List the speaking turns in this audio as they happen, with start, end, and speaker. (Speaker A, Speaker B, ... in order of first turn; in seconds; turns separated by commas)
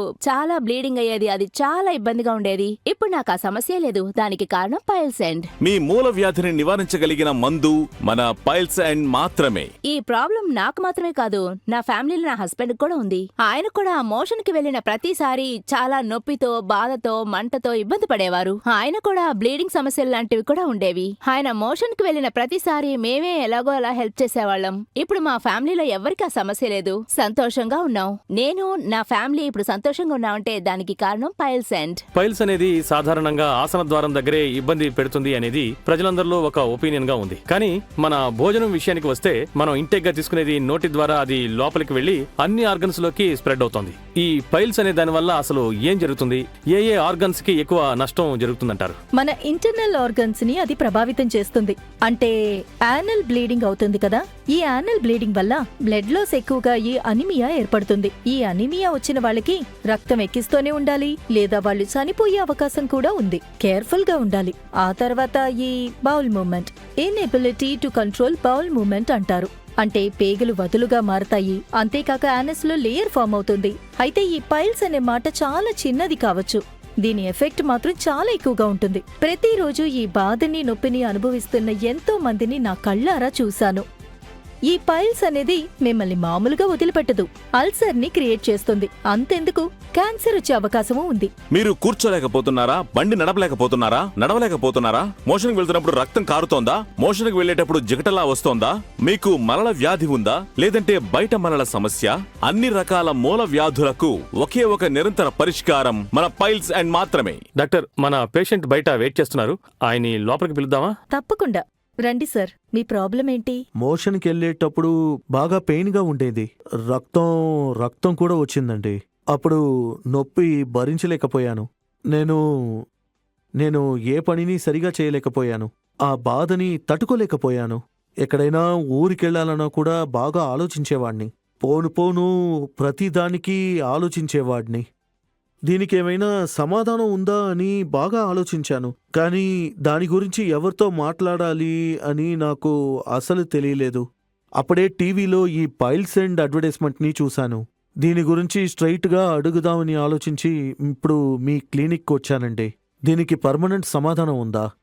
Speaker A: 0.3-5.5, Speaker B: 5.6-9.7, Speaker A: 9.9-32.0, Speaker C: 32.1-49.0, Speaker D: 49.2-52.3, Speaker D: 52.9-83.8, Speaker D: 84.7-91.3, Speaker B: 91.5-107.4, Speaker C: 107.6-110.9, Speaker D: 111.1-113.6, Speaker E: 113.8-122.8, Speaker E: 123.6-134.8, Speaker E: 135.7-144.0, Speaker E: 144.6-154.7